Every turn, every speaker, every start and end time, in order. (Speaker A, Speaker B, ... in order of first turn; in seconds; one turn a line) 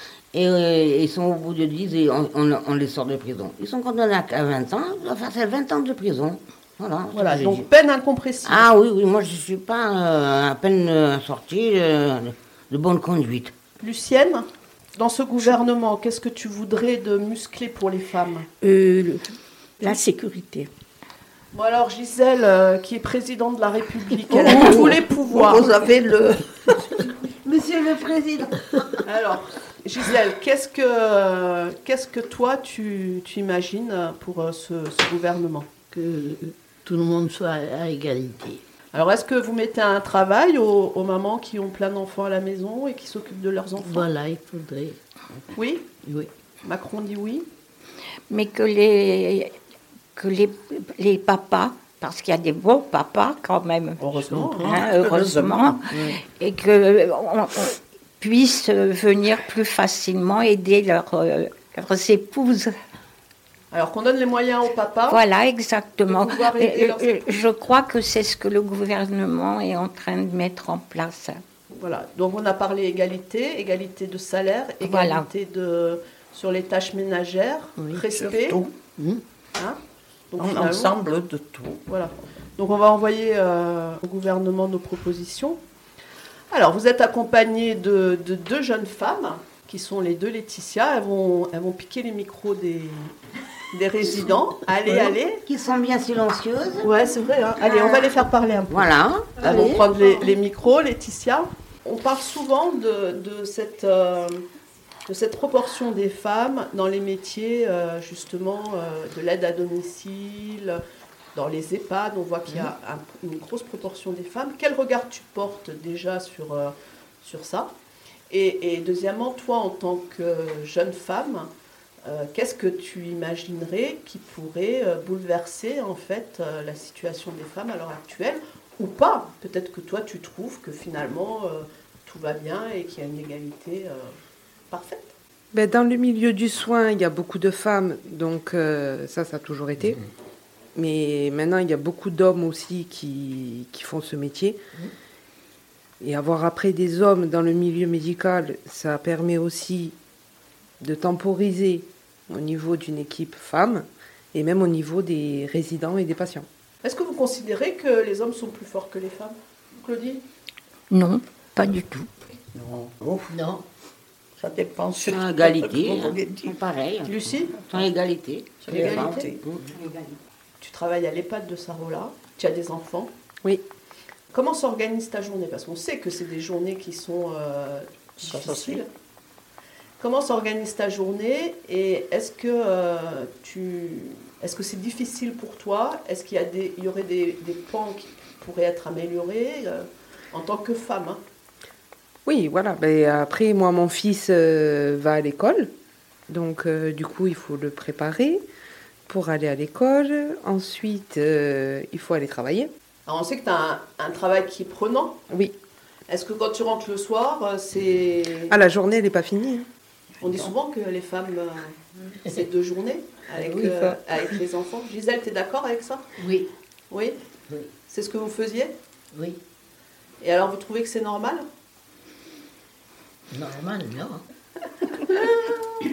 Speaker A: 0.3-7.7
Speaker B: 7.1-8.7
Speaker A: 8.4-13.5
Speaker B: 13.8-18.5
Speaker C: 18.6-20.7
Speaker B: 21.5-25.7
Speaker D: 24.3-27.1
Speaker A: 27.4-28.4
Speaker B: 29.0-35.7
Speaker E: 35.9-38.6
Speaker B: 38.9-44.1
Speaker E: 43.8-45.0
Speaker B: 45.5-45.9
Speaker E: 46.0-46.3
Speaker B: 46.6-47.5
Speaker F: 48.3-49.5
Speaker F: 50.1-62.7
Speaker B: 54.0-54.7
Speaker E: 54.3-54.7
Speaker D: 54.6-55.8
Speaker E: 55.9-56.2
Speaker B: 63.7-65.2
Speaker F: 65.1-71.4
Speaker B: 66.0-67.2
Speaker B: 71.8-78.6
Speaker F: 74.8-75.3
Speaker D: 78.1-78.7
Speaker E: 79.0-79.2
Speaker B: 80.3-81.0
Speaker D: 80.4-81.8
Speaker B: 81.9-85.6
Speaker B: 86.5-93.1
Speaker B: 93.7-95.4
Speaker A: 95.5-96.9
Speaker B: 96.8-104.4
Speaker A: 98.7-99.8
Speaker B: 105.1-110.8
Speaker B: 111.3-117.7
Speaker B: 118.3-121.5
Speaker B: 122.0-134.1
Speaker B: 134.7-135.1
Speaker G: 135.5-140.0
Speaker G: 140.8-144.6
Speaker G: 146.0-149.9
Speaker G: 150.8-156.4
Speaker B: 156.8-160.2
Speaker F: 160.9-162.1
Speaker D: 162.5-163.2
Speaker E: 163.3-163.6
Speaker D: 164.4-166.6
Speaker A: 165.1-167.1
Speaker B: 167.0-167.5
Speaker A: 167.7-169.6
Speaker D: 168.6-169.4
Speaker B: 168.7-169.1
Speaker E: 169.7-170.1
Speaker B: 170.6-173.1
Speaker B: 174.3-178.9
Speaker D: 178.2-178.8
Speaker B: 180.0-191.2
Speaker G: 192.2-195.7
Speaker G: 196.3-198.4
Speaker G: 199.1-202.7
Speaker B: 203.1-205.2
Speaker B: 206.1-208.6
Speaker G: 208.5-209.7
Speaker B: 210.2-216.1
Speaker G: 213.5-214.0
Speaker E: 216.2-216.5
Speaker B: 216.9-217.2
Speaker B: 217.9-218.8
Speaker E: 219.1-219.4
Speaker B: 220.2-221.5
Speaker E: 223.3-224.2
Speaker B: 225.1-225.5